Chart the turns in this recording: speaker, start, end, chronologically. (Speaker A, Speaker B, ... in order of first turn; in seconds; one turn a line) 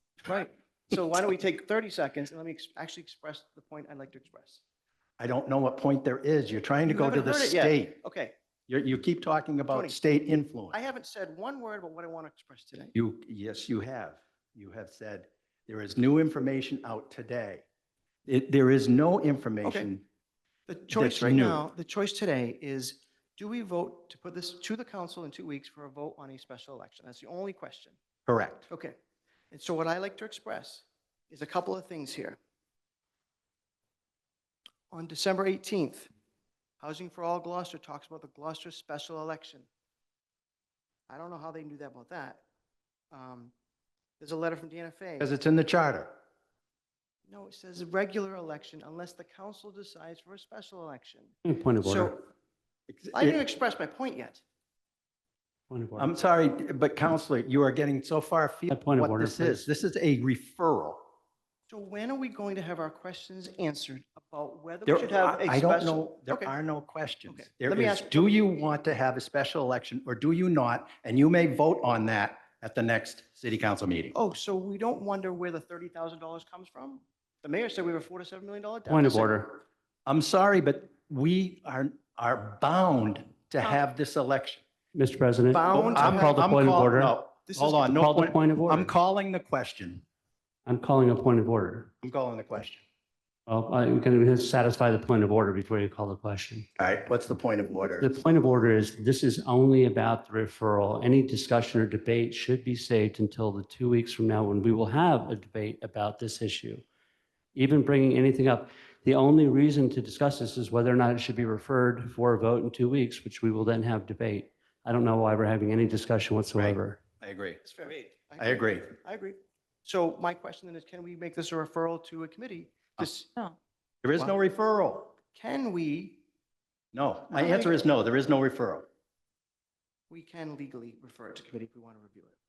Speaker A: 0.2-4.6
Speaker B: 5.2-8.0
Speaker A: 6.8-8.3
Speaker B: 8.7-10.7
Speaker A: 9.7-9.9
Speaker A: 10.7-12.9
Speaker B: 12.9-17.6
Speaker B: 18.2-20.0
Speaker A: 19.6-19.9
Speaker A: 20.7-28.0
Speaker B: 20.9-21.6
Speaker B: 28.3-28.7
Speaker A: 28.7-28.9
Speaker A: 29.5-32.4
Speaker A: 34.9-36.1
Speaker A: 36.8-39.7
Speaker A: 41.1-42.4
Speaker A: 43.1-43.5
Speaker A: 44.2-45.3
Speaker B: 45.2-46.1
Speaker A: 47.3-52.2
Speaker C: 51.4-52.1
Speaker B: 52.9-53.4
Speaker A: 53.1-54.4
Speaker C: 55.7-56.1
Speaker B: 56.0-61.0
Speaker C: 58.7-59.7
Speaker A: 61.7-66.5
Speaker B: 64.8-74.1
Speaker A: 67.3-68.3
Speaker A: 74.1-79.3
Speaker C: 78.9-79.6
Speaker B: 80.0-84.6
Speaker C: 84.9-87.1
Speaker A: 85.5-86.4
Speaker B: 85.7-90.0
Speaker A: 87.5-88.0
Speaker C: 87.9-88.9
Speaker C: 90.7-91.9
Speaker B: 92.0-92.8
Speaker C: 93.5-96.7
Speaker B: 96.8-98.1
Speaker C: 98.0-106.8
Speaker C: 107.5-117.0
Speaker B: 116.5-117.6
Speaker A: 117.6-123.5
Speaker B: 118.4-118.9
Speaker B: 124.0-125.1
Speaker A: 125.3-126.2
Speaker B: 126.9-128.8
Speaker A: 127.3-127.8
Speaker A: 130.1-132.3